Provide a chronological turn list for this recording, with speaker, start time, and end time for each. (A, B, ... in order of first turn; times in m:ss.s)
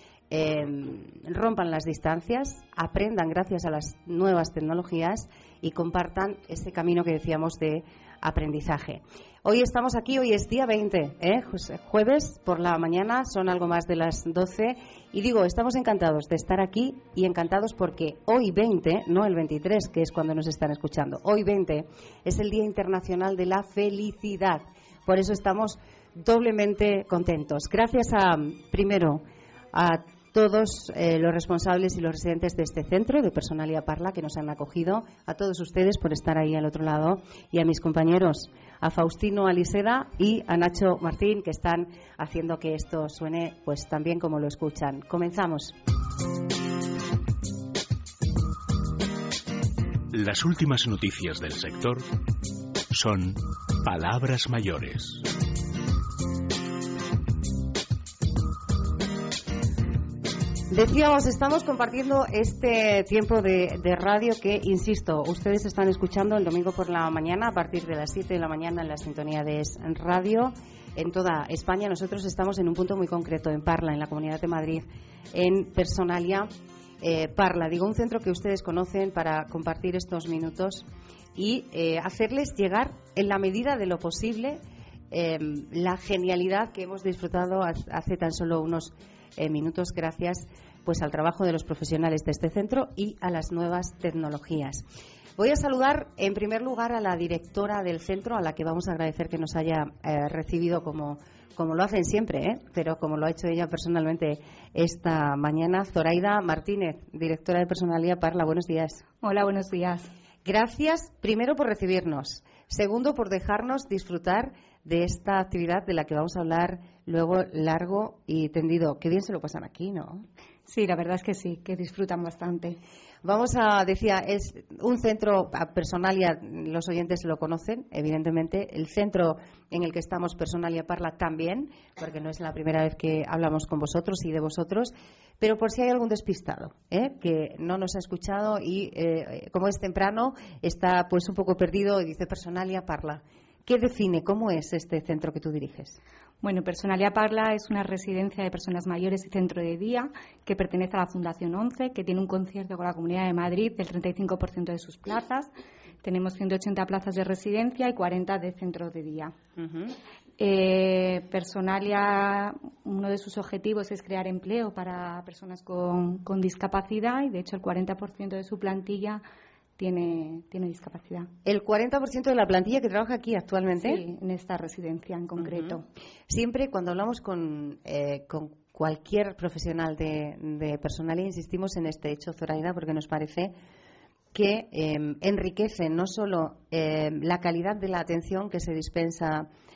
0:00.3-0:45.7 A
0:50.1-0:52.0 B
0:52.9-0:55.2 B
1:00.7-1:34.8 A
1:35.4-1:49.0 A
1:49.2-1:50.1 C
1:50.4-2:00.2 A
2:00.6-2:02.8 C
2:03.2-2:26.0 A
2:26.4-2:35.5 C
2:36.0-2:39.3 C
2:39.6-2:40.0 A
2:40.4-2:49.2 C
2:49.8-2:51.3 C
2:51.4-2:54.0 A
2:53.7-2:55.8 C
2:55.4-3:03.5 A
3:04.3-3:09.5 A